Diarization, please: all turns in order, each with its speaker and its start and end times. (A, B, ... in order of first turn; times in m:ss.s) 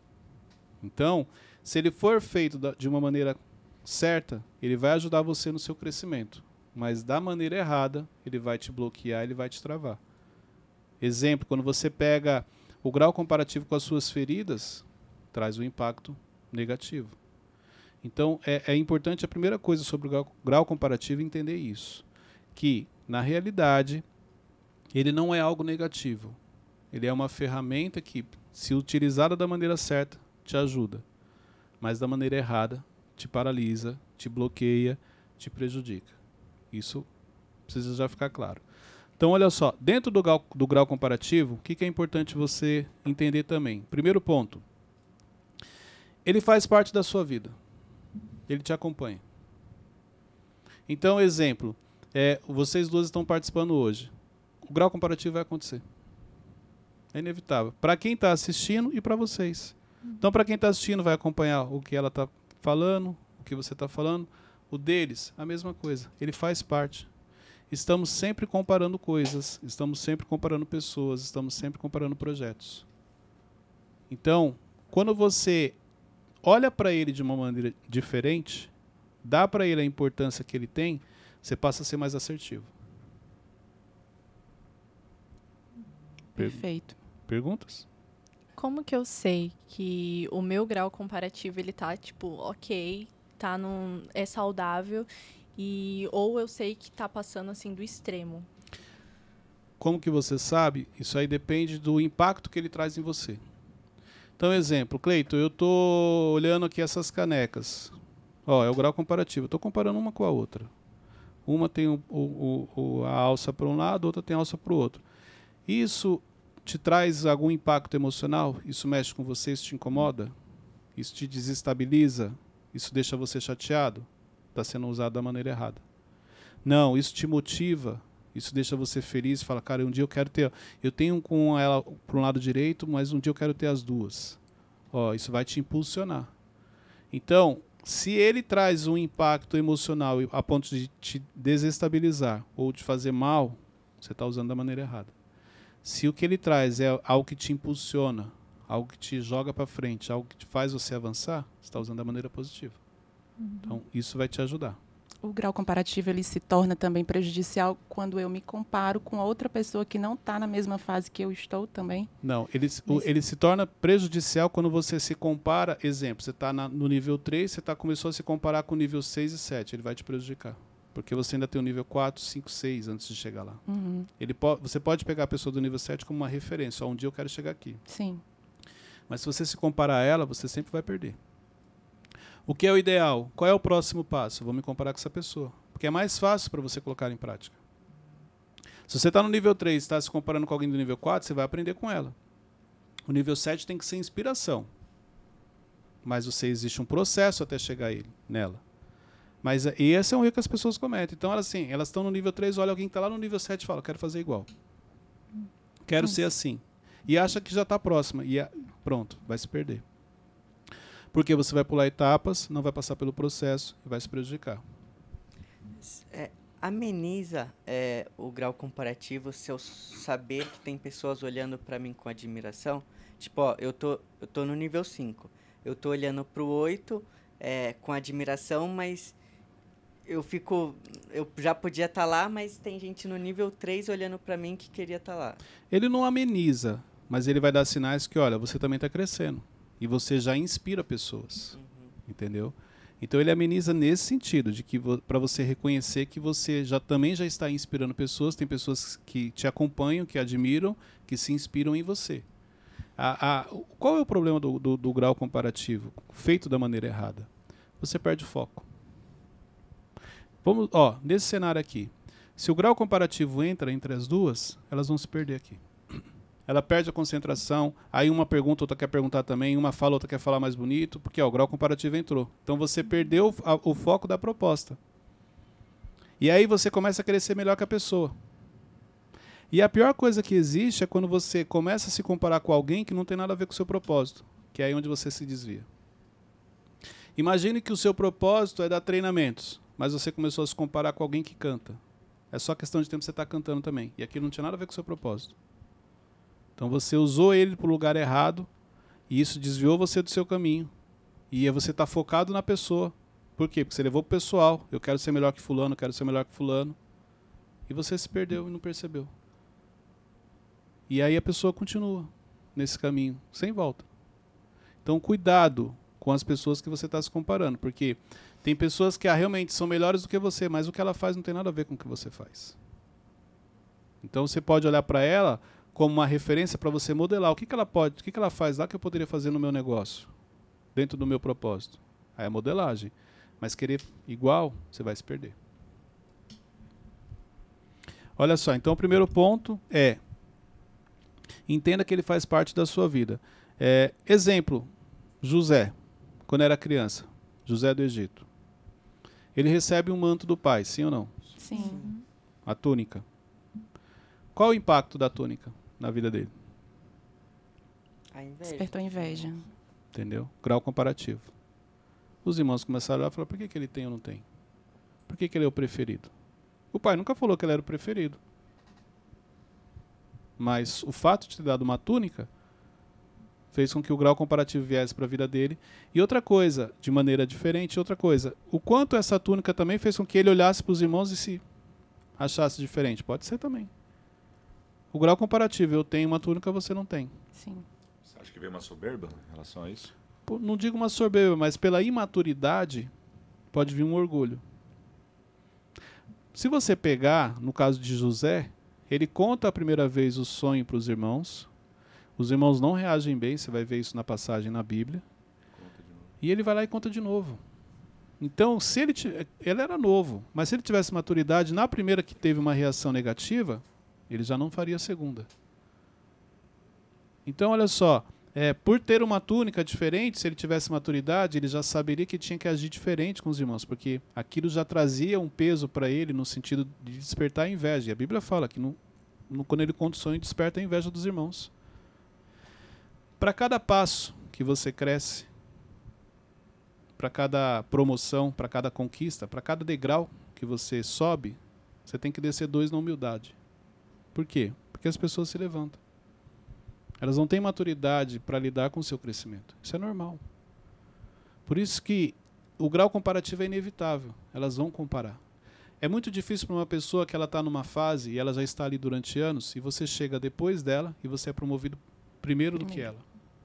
0:00.8-0:10.0 A
0:11.0-0:17.2 A
0:18.0-0:22.0 A
0:22.6-0:24.0 A
0:24.9-0:26.4 A
0:26.9-0:31.0 A
0:31.8-0:36.1 A
0:36.7-0:37.1 A
0:37.7-0:38.6 A
0:39.2-0:44.6 A
0:46.2-0:47.6 A
0:48.5-0:49.2 A
0:50.9-0:54.1 A
0:54.6-0:55.8 A
0:57.1-1:07.1 A
1:07.7-1:12.8 A
1:14.1-1:15.8 A
1:16.4-1:18.7 A
1:19.2-1:22.7 A
1:26.4-1:27.0 B
1:26.4-1:26.6 A
1:27.3-1:27.9 A
1:28.6-1:38.5 C
1:39.8-1:43.4 A
1:44.4-1:47.9 A
1:48.5-1:50.7 A
1:51.5-1:55.0 A
1:55.7-2:00.3 A
2:01.0-2:05.8 A
2:06.6-2:14.4 A
2:14.9-2:16.3 A
2:17.1-2:25.1 A
2:25.8-2:32.8 A
2:33.4-2:33.8 C
2:33.7-2:34.8 A
2:35.2-2:42.1 B
2:42.2-2:53.6 A
2:53.7-2:54.1 B
2:54.2-2:57.8 A
2:57.9-2:58.2 B
2:59.1-3:01.2 A
3:02.5-3:07.6 A
3:08.9-3:12.2 A
3:13.1-3:14.7 A
3:16.0-3:18.6 A
3:19.4-3:24.5 A
3:25.9-3:29.8 A
3:31.1-3:34.6 A
3:35.8-3:49.2 D
3:50.1-3:55.4 D
3:55.7-4:01.6 A
4:01.6-4:01.9 D
4:02.1-4:12.2 A
4:13.0-4:17.3 A
4:17.8-4:18.7 A
4:20.4-4:25.6 A
4:26.5-4:34.8 A
4:36.2-4:38.2 A
4:39.5-4:45.7 A
4:47.2-4:51.8 A
4:52.3-4:55.4 A
4:56.6-4:58.5 A
4:59.1-5:00.7 A
5:01.3-5:06.8 A
5:07.7-5:09.1 A
5:10.9-5:13.9 A
5:14.8-5:22.6 A
5:24.0-5:30.1 A
5:30.8-5:35.4 A
5:38.2-5:40.0 A
5:41.5-5:44.7 A
5:45.2-5:45.7 A
5:46.3-5:48.3 A
5:49.4-5:51.2 A
5:51.4-5:51.9 B
5:51.5-5:51.9 D
5:51.5-5:52.0 C
5:52.5-5:53.0 A
5:54.4-5:56.3 A
5:58.1-5:59.3 D
5:58.5-5:59.4 B
5:59.9-6:01.3 A
6:02.2-6:04.2 A
6:05.1-6:06.1 A
6:06.7-6:08.2 A
6:10.4-6:12.3 A
6:13.5-6:21.4 A
6:22.2-6:23.7 A
6:24.9-6:27.1 A
6:27.4-6:27.6 B
6:28.0-6:29.9 E
6:30.3-6:32.9 A
6:33.5-6:34.4 A
6:36.3-6:41.5 A
6:42.2-6:45.0 A
6:45.6-6:46.1 E
6:46.2-6:47.4 A
6:48.2-6:55.3 A
6:57.3-7:08.8 A
7:09.3-7:11.5 A
7:13.2-7:15.3 A
7:17.0-7:23.4 A
7:24.1-7:25.8 A
7:27.0-7:30.2 A
7:31.5-7:35.2 A
7:35.8-7:43.0 A
7:42.6-7:42.9 B